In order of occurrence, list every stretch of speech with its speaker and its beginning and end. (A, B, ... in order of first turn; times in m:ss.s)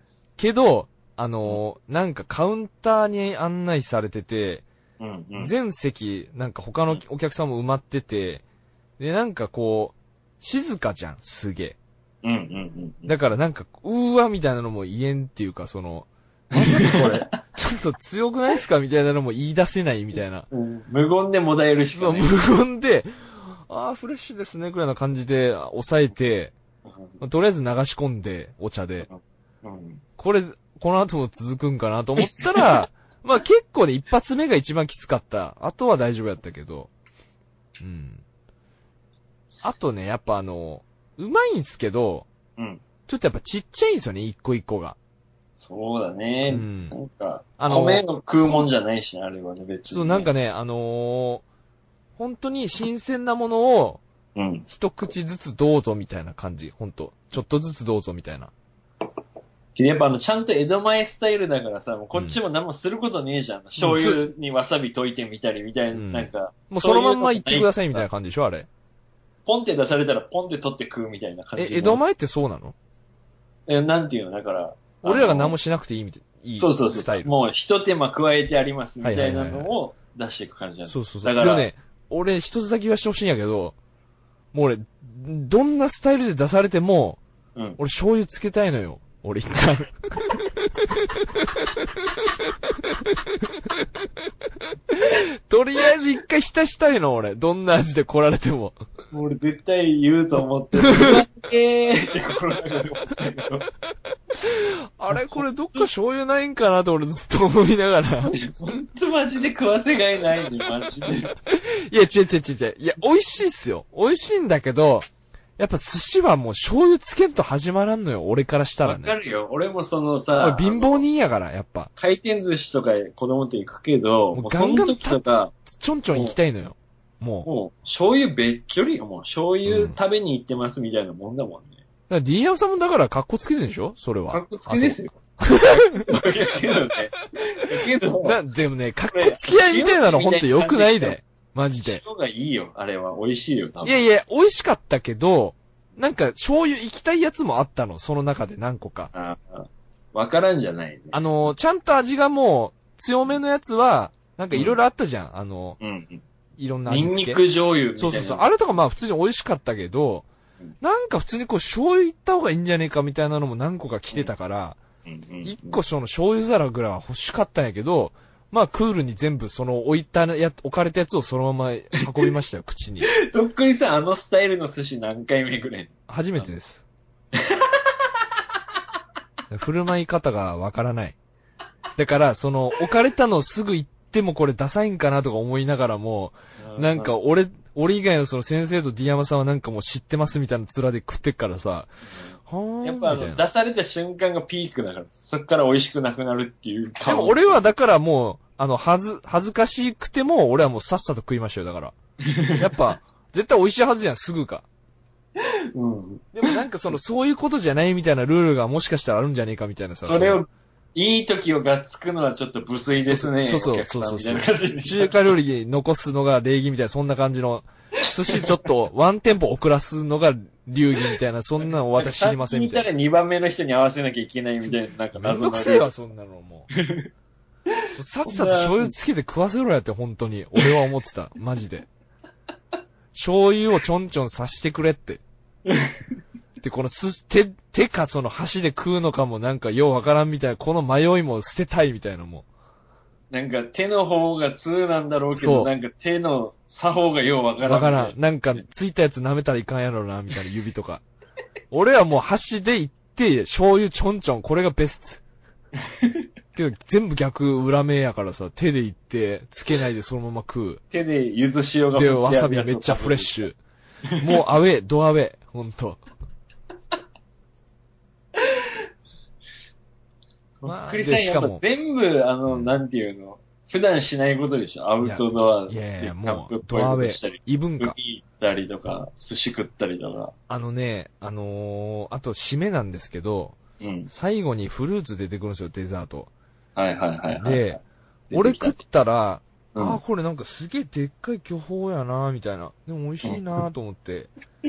0:00.4-0:04.6 A
0:05.0-0:05.5 B
0:05.4-0:08.4 A
0:09.0-0:11.8 A
0:12.2-0:13.2 B
0:13.1-0:20.5 A
0:16.6-0:17.4 B
0:20.5-0:22.4 B
0:21.9-0:26.5 A
0:27.2-0:29.1 A
0:29.1-0:30.0 B
0:30.2-0:36.9 A
0:32.2-0:32.9 B
0:37.8-0:38.2 A
0:39.6-0:42.3 A
0:42.6-0:42.8 B
0:43.1-0:45.0 A
0:45.6-0:50.3 B
0:46.5-0:47.0 A
0:47.6-0:48.7 A
0:49.9-0:51.4 A
0:52.2-0:54.0 A
0:54.4-0:54.7 B
0:54.7-0:58.5 A
0:59.8-1:08.0 B
1:02.1-1:02.4 A
1:03.8-1:04.3 A
1:05.9-1:08.7 A
1:09.5-1:12.0 B
1:11.6-1:12.8 A
1:13.7-1:15.6 B
1:15.0-1:17.3 A
1:16.6-1:21.7 B
1:19.0-1:19.7 A
1:20.9-1:23.8 A
1:24.5-1:27.2 A
1:27.8-1:38.8 A
1:39.1-1:43.7 B
1:40.8-1:41.2 A
1:44.4-1:48.3 A
1:45.1-1:45.8 B
1:48.3-1:51.3 B
1:51.4-1:59.1 A
1:58.8-2:01.0 B
2:00.4-2:01.9 A
2:02.0-2:05.5 B
2:04.3-2:07.5 A
2:07.5-2:11.8 B
2:09.7-2:10.0 A
2:12.1-2:16.3 A
2:14.3-2:18.4 B
2:17.8-2:22.0 A
2:19.1-2:21.2 B
2:21.8-2:24.0 B
2:23.8-2:29.1 A
2:29.1-2:31.3 B
2:31.1-2:35.8 A
2:35.8-2:36.2 B
2:36.6-2:37.4 A
2:36.9-2:38.5 B
2:38.0-2:40.3 A
2:40.8-2:44.8 A
2:45.1-2:45.8 B
2:45.4-2:53.1 A
2:53.1-2:56.5 B
2:56.1-2:56.8 A
2:57.4-2:57.9 B
2:59.5-3:01.2 A
3:02.0-3:11.9 A
3:06.6-3:07.1 B
3:12.4-3:13.4 A
3:12.8-3:17.7 B
3:17.1-3:22.0 A
3:22.2-3:22.8 B
3:22.6-3:24.7 A
3:25.4-3:26.6 B
3:26.3-3:30.4 A
3:30.0-3:35.2 B
3:32.9-3:42.9 A
3:38.2-3:38.6 B
3:42.0-3:45.9 B
3:45.1-3:46.7 A
3:46.7-3:47.1 B
3:47.8-3:48.9 B
3:48.0-3:51.9 A
3:53.1-3:55.2 A
3:55.7-3:56.0 B
3:56.6-4:02.5 A
4:03.3-4:08.2 B
4:05.4-4:05.7 A
4:07.6-4:11.0 A
4:11.7-4:15.2 A
4:15.9-4:16.2 B
4:16.6-4:20.8 A
4:20.9-4:23.4 B
4:21.9-4:23.6 A
4:24.2-4:26.0 A
4:28.4-4:28.7 B
4:30.6-4:40.4 B
4:30.7-4:31.6 A
4:32.5-4:32.7 A
4:35.0-4:38.0 A
4:40.5-4:43.6 A
4:43.8-4:44.1 B
4:44.1-4:46.3 A
4:46.8-4:48.8 B
4:47.4-4:47.8 A
4:48.3-4:54.3 A
4:49.8-4:50.0 B